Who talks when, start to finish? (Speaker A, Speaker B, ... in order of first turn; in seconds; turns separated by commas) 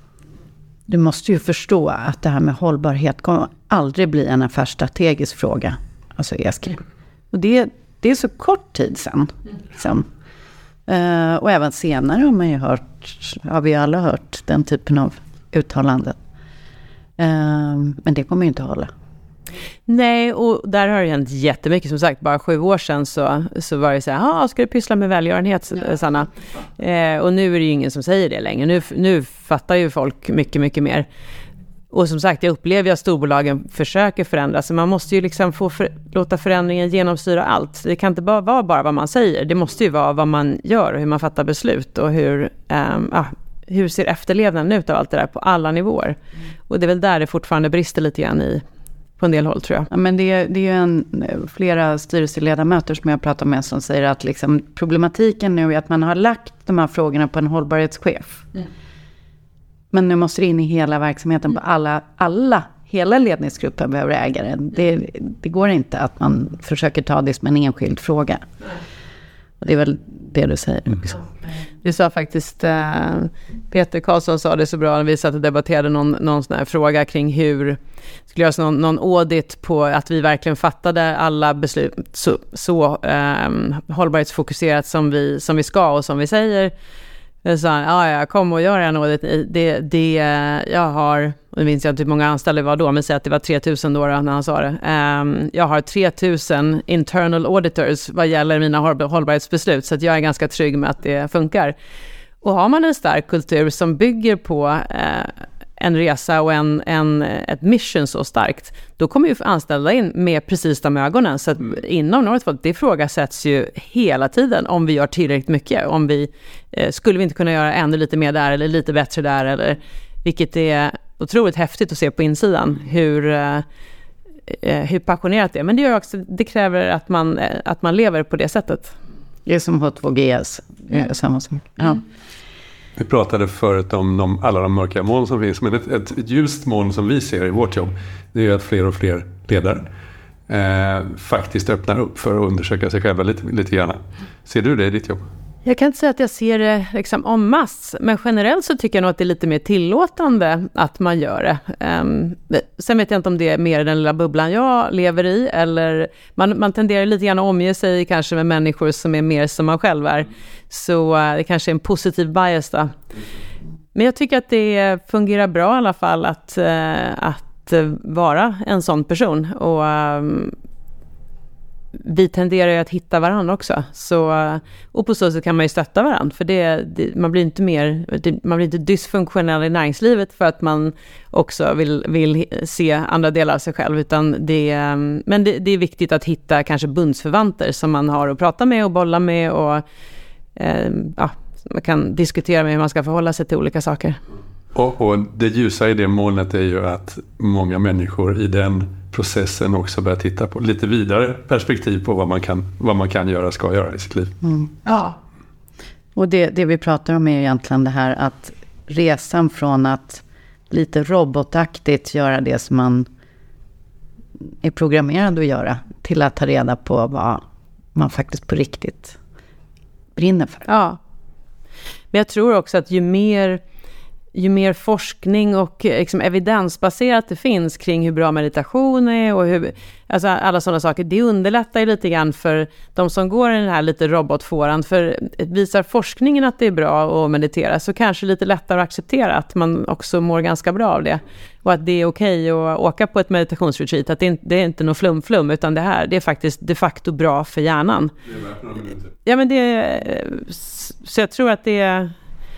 Speaker A: 0.9-10.1, Speaker A: 10.9-16.2, Speaker A: 17.2-18.9, Speaker B: 19.9-31.1, Speaker B: 31.9-46.2, Speaker B: 46.7-48.6, Speaker B: 49.2-49.9, Speaker A: 49.9-58.5, Speaker A: 59.9-68.5, Speaker A: 69.6-71.2, Speaker B: 71.8-77.8, Speaker B: 78.3-86.7, Speaker B: 87.4-101.7, Speaker B: 102.4-123.6, Speaker B: 124.5-128.9, Speaker A: 129.4-132.0, Speaker C: 133.0-139.9, Speaker C: 140.5-145.2, Speaker B: 145.6-163.0, Speaker B: 163.9-170.5, Speaker B: 171.9-189.8, Speaker B: 190.6-194.2, Speaker C: 194.7-204.3, Speaker A: 204.4-204.7, Speaker B: 204.8-205.2, Speaker A: 206.2-213.1, Speaker A: 214.6-217.4, Speaker A: 217.9-219.2, Speaker A: 220.2-220.7, Speaker B: 220.7-221.0, Speaker B: 222.1-223.6, Speaker B: 224.3-248.1, Speaker C: 248.7-248.9, Speaker B: 249.2-252.1